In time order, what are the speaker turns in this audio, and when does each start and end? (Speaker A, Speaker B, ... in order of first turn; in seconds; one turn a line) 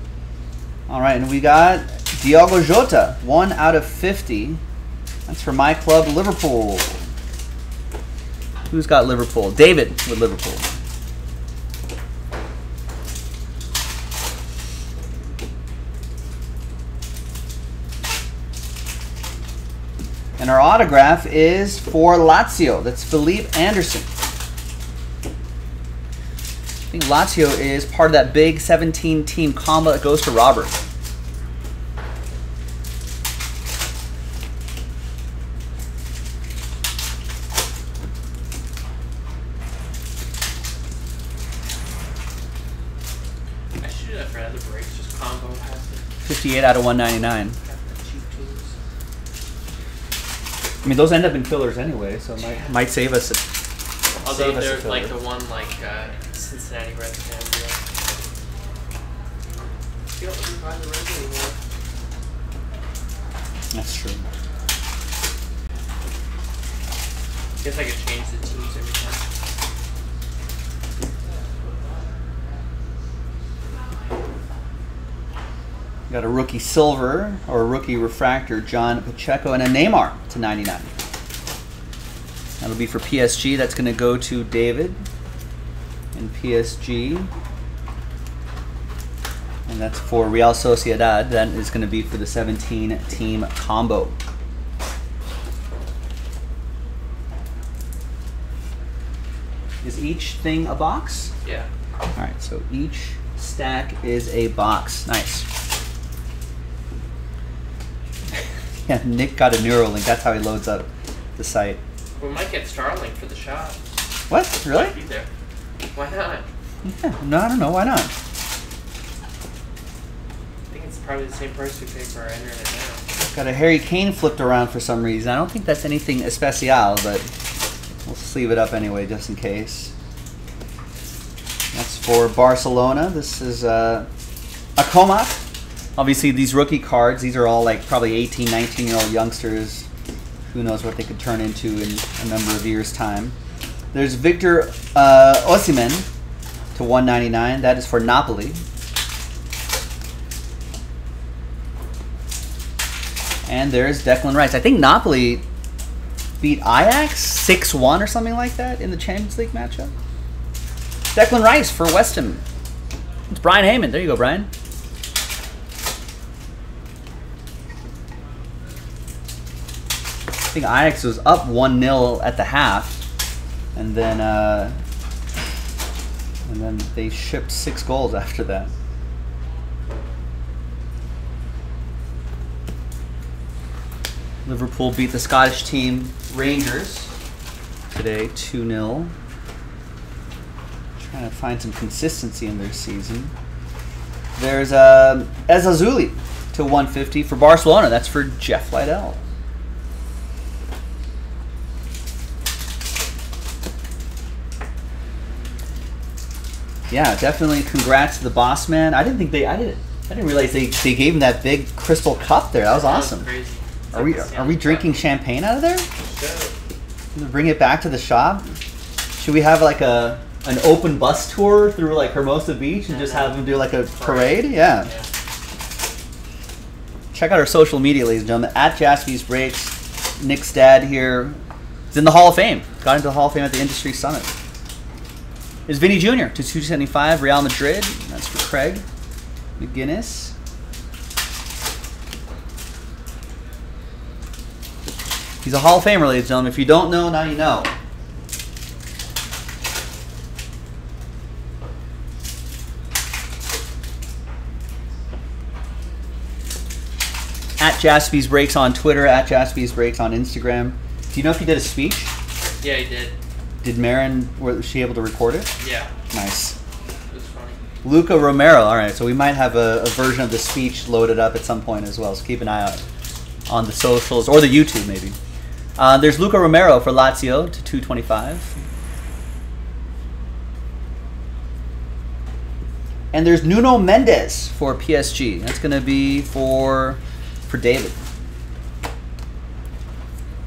Speaker A: 0.9-4.6
Speaker A: 5.3-7.0
Speaker A: 8.7-10.7
Speaker A: 20.4-24.1
Speaker A: 26.9-30.8
Speaker B: 43.8-46.0
Speaker A: 46.2-47.6
Speaker B: 47.6-48.7
Speaker A: 50.8-53.4
Speaker B: 54.2-57.8
Speaker A: 54.2-55.1
Speaker B: 60.1-61.5
Speaker A: 63.7-64.2
Speaker B: 67.6-69.2
Speaker A: 76.1-80.9
Speaker A: 82.6-85.0
Speaker A: 86.1-87.3
Speaker A: 89.7-94.2
Speaker A: 99.8-101.3
Speaker A: 102.2-105.5
Speaker A: 108.9-111.8
Speaker B: 112.2-113.8
Speaker A: 114.3-114.9
Speaker B: 114.7-115.3
Speaker B: 115.9-116.5
Speaker A: 116.8-118.1
Speaker B: 120.7-123.0
Speaker A: 123.2-127.3
Speaker A: 128.1-129.9
Speaker A: 131.7-134.1
Speaker A: 134.8-135.4
Speaker A: 136.0-139.9
Speaker A: 140.5-143.3
Speaker A: 143.9-146.1
Speaker A: 146.7-148.6
Speaker A: 153.4-155.4
Speaker A: 156.4-159.9
Speaker A: 161.1-162.4
Speaker A: 163.3-164.5
Speaker A: 170.5-173.0
Speaker A: 173.7-174.8
Speaker A: 176.4-178.7
Speaker A: 184.4-187.1
Speaker A: 187.9-189.1
Speaker A: 191.0-193.3
Speaker A: 194.4-199.2
Speaker A: 206.9-213.3
Speaker B: 212.6-215.0
Speaker A: 213.9-215.9
Speaker B: 216.0-216.5
Speaker A: 217.1-218.5
Speaker A: 219.2-224.9
Speaker B: 222.9-225.1
Speaker A: 227.1-231.4
Speaker A: 231.9-234.3
Speaker A: 235.7-238.8
Speaker A: 239.6-240.3
Speaker A: 245.4-247.7
Speaker A: 257.6-262.1
Speaker B: 262.6-263.1
Speaker A: 263.6-265.5
Speaker B: 265.6-265.9
Speaker A: 266.1-266.6
Speaker B: 267.1-267.6
Speaker A: 267.8-272.8
Speaker A: 273.5-275.1
Speaker A: 275.8-278.5
Speaker A: 283.1-288.0